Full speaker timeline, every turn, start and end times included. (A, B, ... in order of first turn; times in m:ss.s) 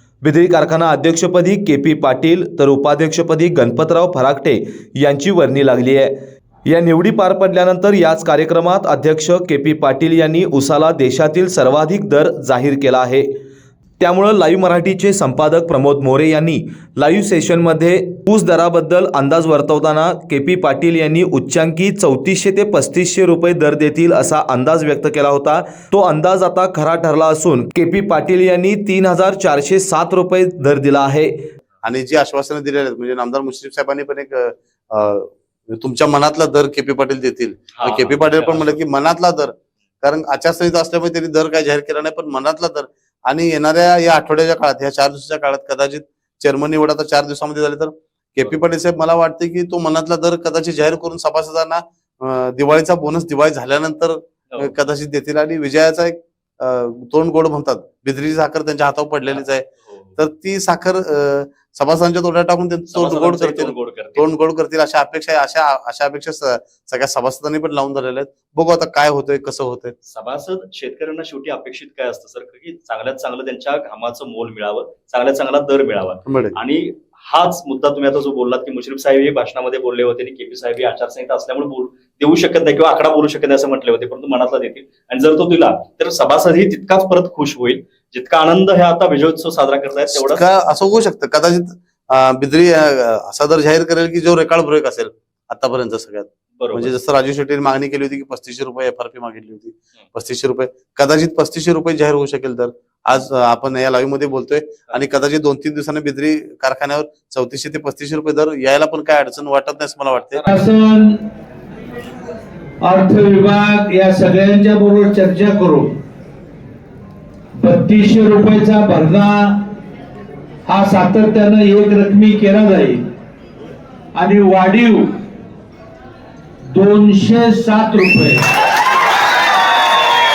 0:00.2-0:06.1 A
0:06.7-0:13.3 A
0:14.0-0:31.5 A
0:31.8-1:10.0 B
0:37.8-0:38.8 C
0:59.3-1:00.1 C
1:02.9-1:04.3 C
1:10.1-1:30.4 C
1:16.3-1:16.6 B
1:30.1-1:50.5 B
1:36.6-1:36.9 C
1:50.5-1:51.2 D
1:52.8-1:56.0 D
1:57.6-1:59.7 D
2:00.7-2:03.1 D
2:04.2-2:05.2 D
2:06.7-2:08.5 D